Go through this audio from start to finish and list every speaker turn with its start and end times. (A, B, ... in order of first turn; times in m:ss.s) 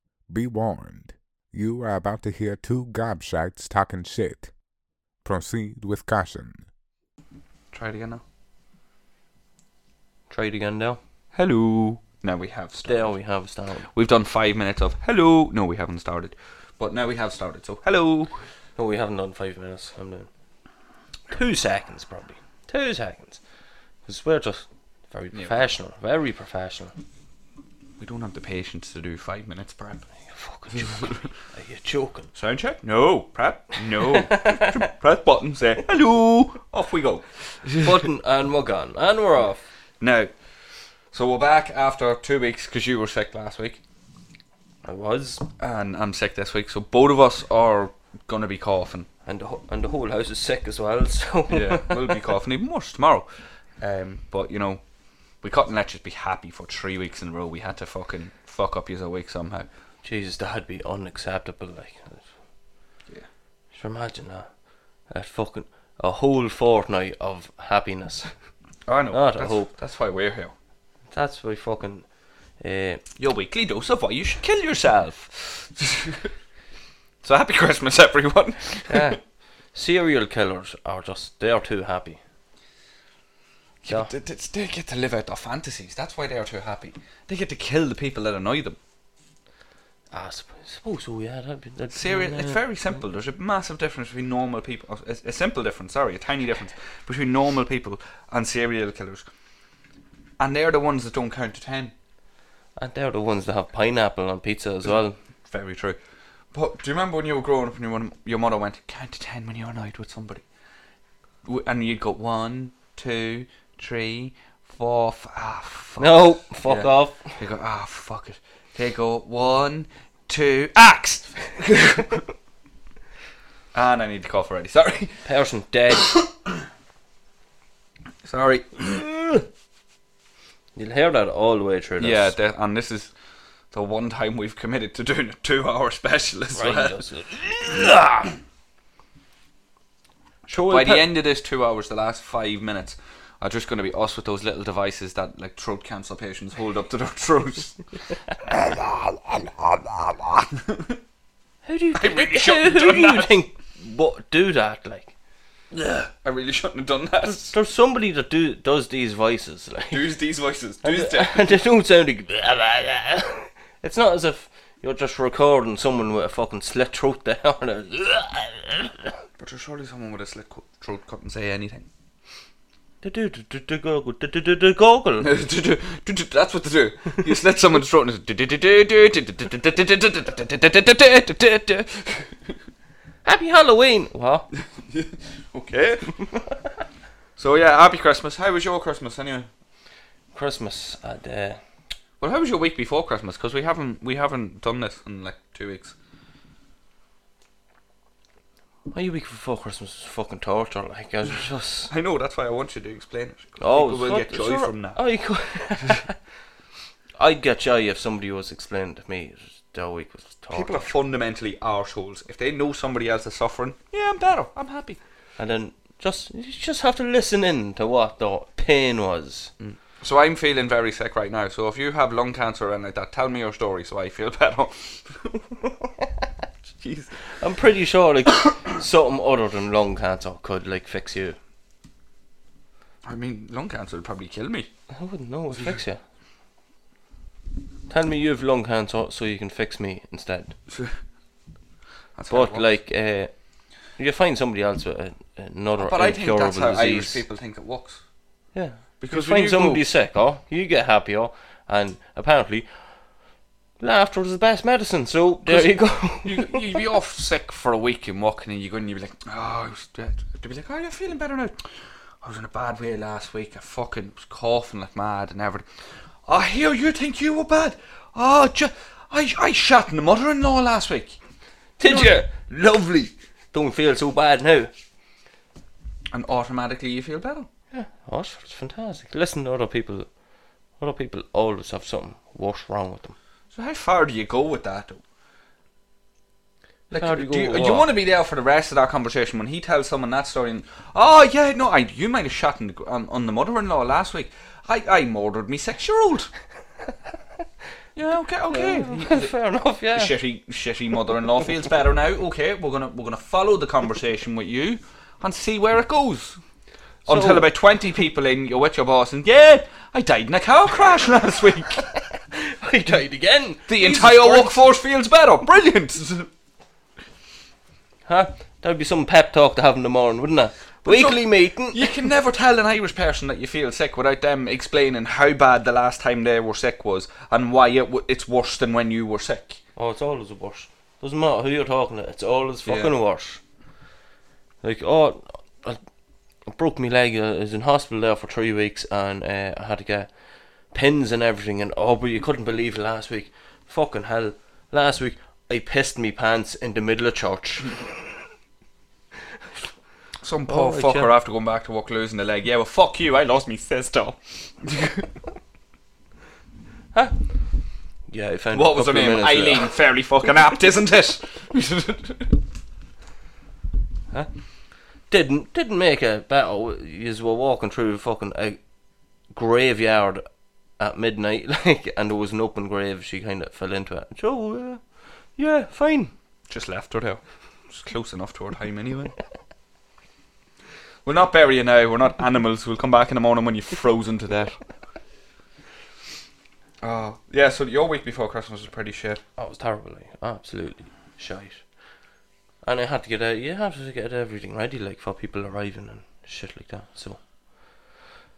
0:00.3-0:04.5 A
0:05.2-0:06.6 A
0:07.7-0:08.2 B
0:10.3-0:11.0 C
0:11.3-0:13.1 B
0:12.9-0:13.9 C
0:13.9-0:18.3 B
0:18.8-0:20.3 C
0:21.3-0:23.4 C
0:24.1-0:26.9 C
0:25.3-0:25.6 B
0:28.0-0:30.1 B
0:30.2-0:32.3 C
0:30.7-0:31.3 B
0:32.4-0:37.9 B
0:34.0-0:34.8 C
0:37.8-0:39.6 C
0:40.0-0:40.3 B
0:41.1-0:43.8 B
0:44.8-0:45.5 C
0:45.6-0:49.1 B
0:49.3-0:52.2 C
0:51.5-0:53.3 B
0:53.8-0:54.8 B
0:55.4-0:59.7 B
1:00.0-1:02.3 C
1:03.7-1:04.5 C
1:05.1-1:08.3 C
1:08.9-1:10.5 B
1:09.1-1:09.7 C
1:11.1-1:12.1 C
1:12.6-1:13.0 C
1:13.2-1:16.3 B
1:17.2-1:19.2 B
1:18.9-1:19.2 C
1:19.7-1:22.2 C
1:23.8-1:28.8 B
1:30.1-1:32.6 C
1:31.9-1:39.3 B
1:40.4-1:41.9 B
1:42.8-1:45.2 C
1:45.5-1:46.0 B
1:46.5-1:50.4 B
1:51.4-2:02.2 B
1:56.0-1:57.4 C
2:03.7-2:05.2 B
2:05.2-2:06.1 C
2:08.2-2:09.4 B
2:10.8-2:12.3 C
2:12.0-2:13.1 B
2:13.7-2:17.0 B
2:16.6-2:18.3 C
2:20.5-2:21.1 C
2:20.5-2:27.8 B
2:28.4-2:31.0 B
2:31.6-2:35.1 C
2:32.0-2:33.4 B
2:35.7-2:37.6 B
2:37.2-2:40.0 C
2:39.9-2:41.6 B
2:40.8-2:49.1 C
2:49.4-2:51.9 B
2:53.0-2:55.3 C
2:55.2-3:02.4 B
3:03.2-3:04.5 C
3:04.9-3:06.3 B
3:07.4-3:09.5 B
3:10.3-3:11.6 C
3:12.2-3:15.9 B
3:18.9-3:21.9 C
3:21.9-3:25.0 B
3:23.6-3:26.2 C
3:27.2-3:30.9 C
3:30.5-3:35.0 B
3:35.4-3:39.5 C
3:39.6-3:45.3 B
3:46.7-3:47.3 B
3:47.3-3:51.4 C
3:53.0-3:54.7 B
3:54.9-3:56.0 C
3:57.9-4:00.6 C
4:00.7-4:01.0 B
4:02.2-4:02.7 B
4:02.3-4:03.3 C
4:04.0-4:07.2 C
4:05.8-4:08.0 B
4:08.6-4:12.7 C
4:09.0-4:09.8 B
4:13.8-4:16.8 C
4:15.5-4:21.6 B
4:22.2-4:25.6 B
4:26.3-4:31.2 B
4:31.8-4:34.7 C
4:31.8-4:32.3 B
4:36.1-4:37.5 B
4:37.7-4:40.1 C
4:40.8-4:43.2 C
4:43.5-4:45.0 B
4:46.9-4:47.9 C
4:46.9-4:56.3 B
4:58.0-4:59.3 B
4:58.5-5:00.1 C
4:59.9-5:06.4 B
5:07.1-5:11.9 B
5:07.1-5:07.5 C
5:12.3-5:14.6 C
5:13.7-5:16.3 B
5:18.1-5:21.9 C
5:20.8-5:29.6 B
5:29.8-5:33.4 C
5:32.7-5:32.9 B
5:34.6-5:35.8 C
5:36.5-5:40.1 C
5:40.7-5:47.9 C
5:50.2-5:55.1 B
5:50.5-5:51.1 C
5:56.9-5:57.2 C
5:58.1-5:59.7 C
5:58.5-6:02.4 B
6:05.1-6:08.6 C
6:09.3-6:10.2 C
6:10.8-6:14.8 C
6:15.4-6:16.1 C
6:16.5-6:19.2 B
6:21.0-6:24.6 B
6:26.8-6:29.2 B
6:29.4-6:31.6 C
6:32.6-6:37.2 C